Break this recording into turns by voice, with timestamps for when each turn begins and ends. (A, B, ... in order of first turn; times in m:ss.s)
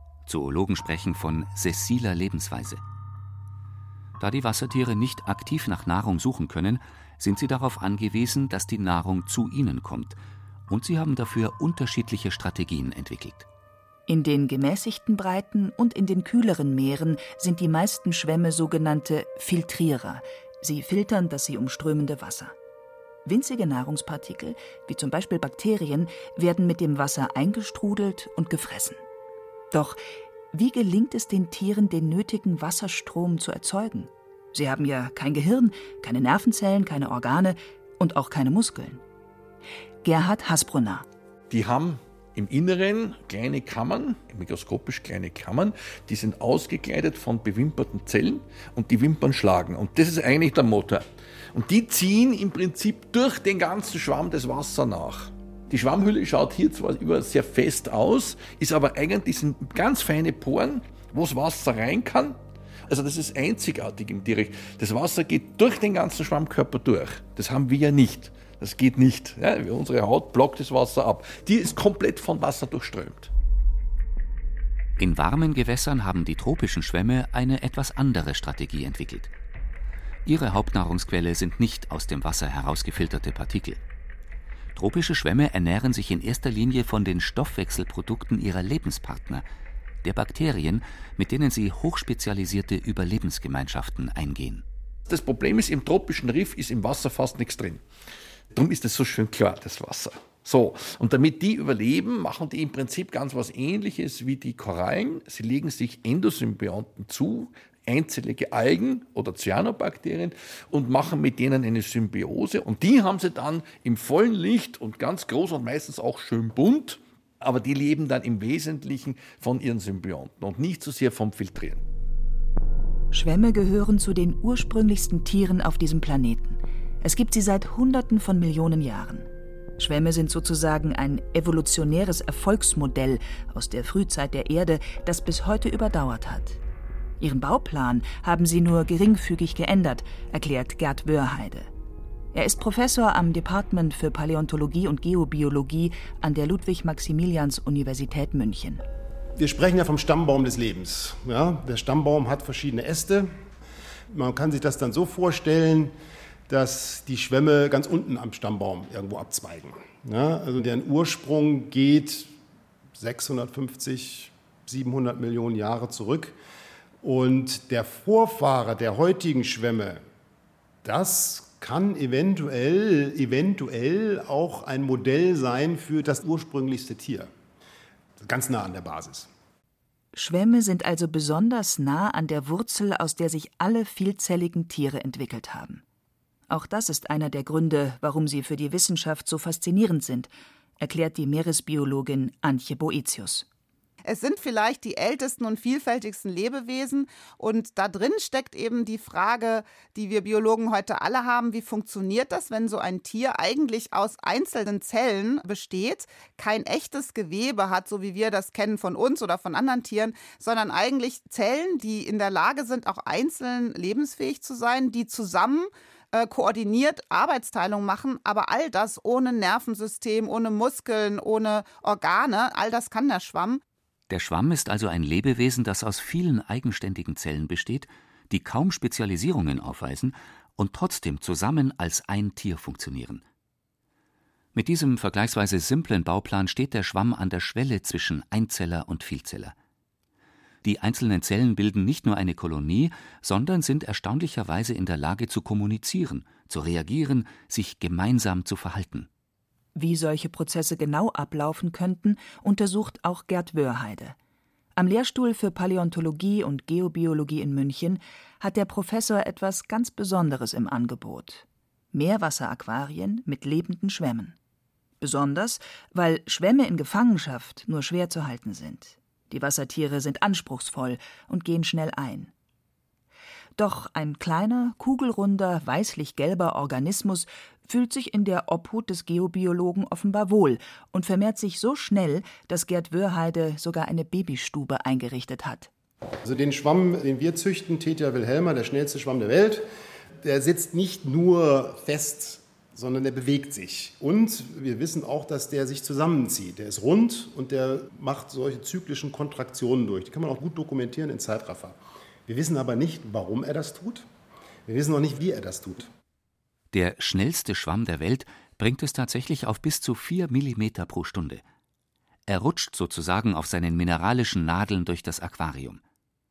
0:00.2-0:02.8 A
0:04.2-0:13.5 A
0:14.1-0:22.5 B
0:23.2-0:29.0 B
0:29.7-0:30.0 B
0:30.5-0:39.0 B
0:40.0-0:41.1 B
0:41.5-1:13.3 C
1:15.0-1:19.3 A
1:20.2-1:23.8 A
1:24.8-1:29.4 A
1:30.0-1:34.6 A
1:35.1-1:37.8 C
1:38.5-2:01.8 C
2:03.1-2:16.6 B
2:17.2-2:21.7 B
2:22.3-2:28.8 B
2:29.4-2:33.3 D
2:34.1-2:35.9 D
2:36.5-2:42.3 D
2:43.0-2:46.4 D
2:47.0-2:50.0 D
2:50.8-2:57.3 D
2:58.2-2:59.3 D
3:00.1-3:05.8 B
3:06.5-3:13.5 B
3:14.1-3:43.6 E
3:44.1-3:53.2 A
3:54.6-3:59.5 A
4:00.6-4:09.1 A
4:09.8-4:14.2 B
4:14.8-4:24.4 B
4:25.0-4:32.3 B
4:33.6-4:45.7 B
4:46.2-4:49.6 D
4:50.2-5:04.1 D
5:04.7-5:05.9 D
5:06.7-5:11.4 A
5:12.3-5:15.8 A